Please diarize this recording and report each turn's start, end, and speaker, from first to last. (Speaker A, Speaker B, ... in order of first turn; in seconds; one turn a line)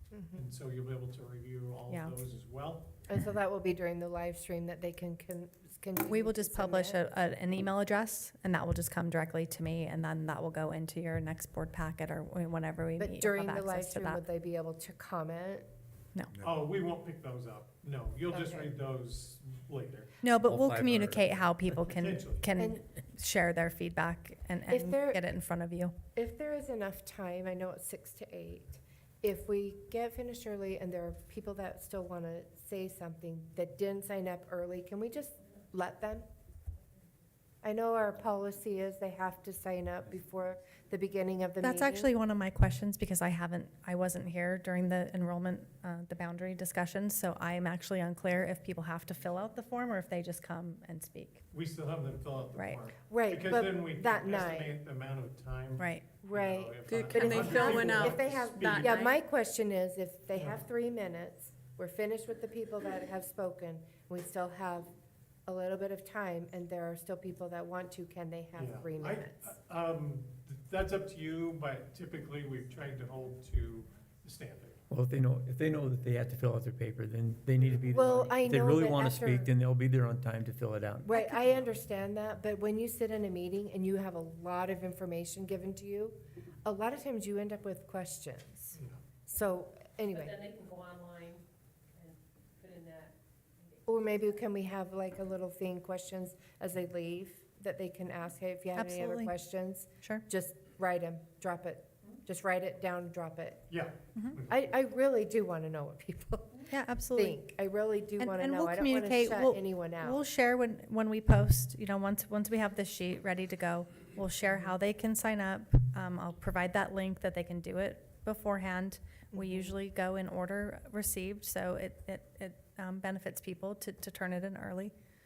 Speaker A: 0.1-0.4
Speaker B: 0.3-3.0
Speaker C: 1.9-2.2
Speaker A: 3.1-7.0
Speaker C: 6.1-14.2
Speaker A: 13.0-15.7
Speaker B: 16.4-20.1
Speaker A: 18.3-18.7
Speaker C: 20.2-25.9
Speaker D: 20.4-21.5
Speaker B: 21.9-22.5
Speaker A: 24.7-25.2
Speaker A: 26.1-36.3
Speaker A: 37.6-42.1
Speaker C: 41.6-51.4
Speaker B: 51.5-59.1
Speaker C: 52.6-52.8
Speaker A: 53.1-54.8
Speaker C: 55.8-56.1
Speaker A: 56.2-64.9
Speaker E: 56.9-59.2
Speaker A: 65.5-69.5
Speaker B: 68.6-74.8
Speaker D: 74.9-81.2
Speaker A: 77.9-79.5
Speaker A: 81.1-90.5
Speaker C: 81.1-81.4
Speaker B: 88.7-89.0
Speaker E: 90.2-91.4
Speaker E: 92.0-93.1
Speaker A: 93.9-103.7
Speaker C: 98.8-99.3
Speaker B: 103.7-104.6
Speaker A: 104.5-110.2
Speaker C: 106.7-107.4
Speaker C: 108.2-124.9
Speaker A: 119.3-119.8